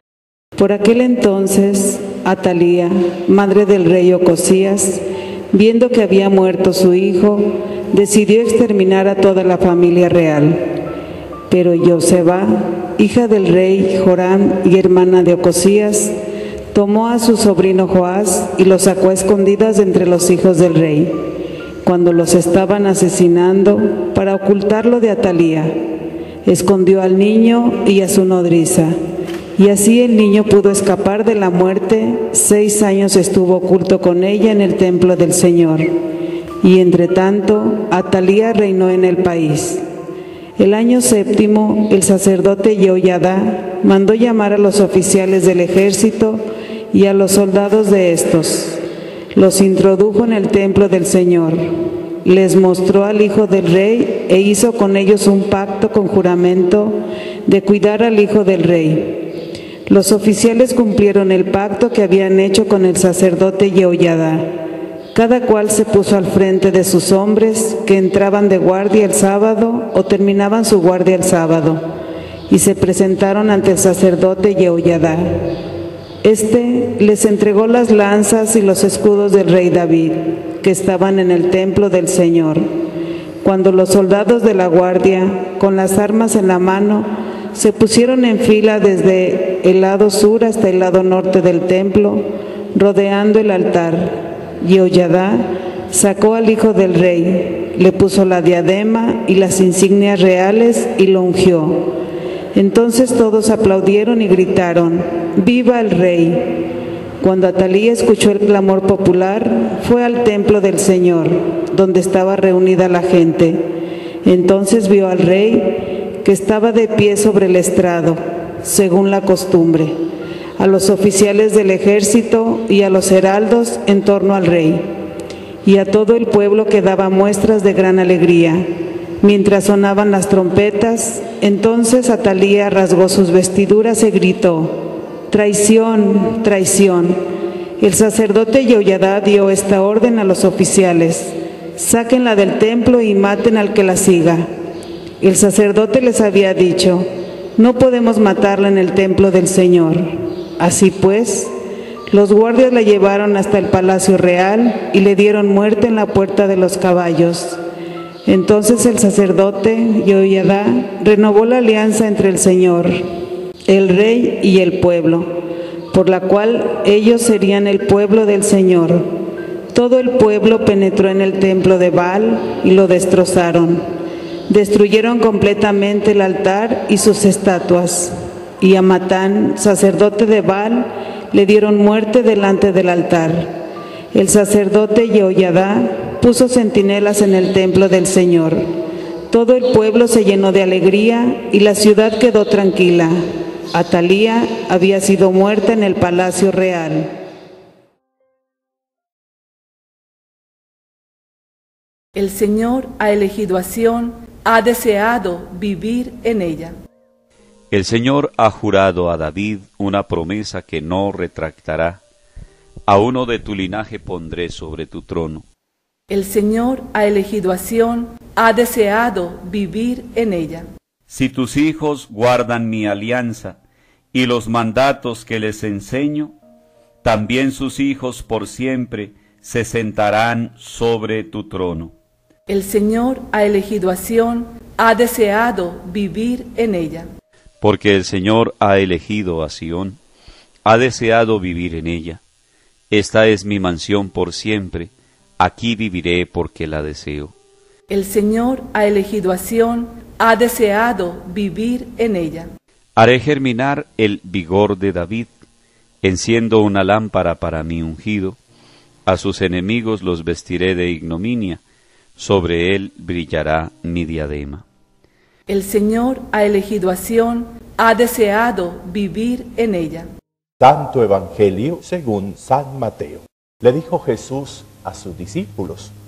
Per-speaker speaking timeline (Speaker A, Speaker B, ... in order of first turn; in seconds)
Speaker A: 0.6-10.7, 11.5-16.1, 16.7-21.2, 21.8-25.8, 26.4-28.9, 29.6-36.0, 36.6-39.8, 40.6-48.8, 49.3-51.7, 52.2-59.3, 59.9-64.5, 65.1-71.8, 72.5-75.4, 76.2-82.7, 83.4-101.9, 102.5-106.6, 107.2-113.7, 114.2-120.0, 120.6-124.9, 125.6-128.7, 129.2-137.2, 137.8-144.5, 145.2-151.5, 152.1-157.6, 158.2-163.0, 163.7-165.3, 165.9-169.1, 169.7-173.8, 174.5-183.5, 184.1-188.7, 189.3-197.1
Speaker B: 202.1-206.7, 216.1-220.7, 232.5-237.1, 247.9-252.5, 265.5-270.1
Speaker C: 207.7-212.0, 212.9-215.4, 221.1-223.6, 224.1-226.3, 227.0-231.9, 237.6-240.0, 240.7-242.2, 242.9-247.3, 252.9-255.3, 256.0-258.4, 259.1-261.6, 262.2-264.6
Speaker D: 270.6-275.9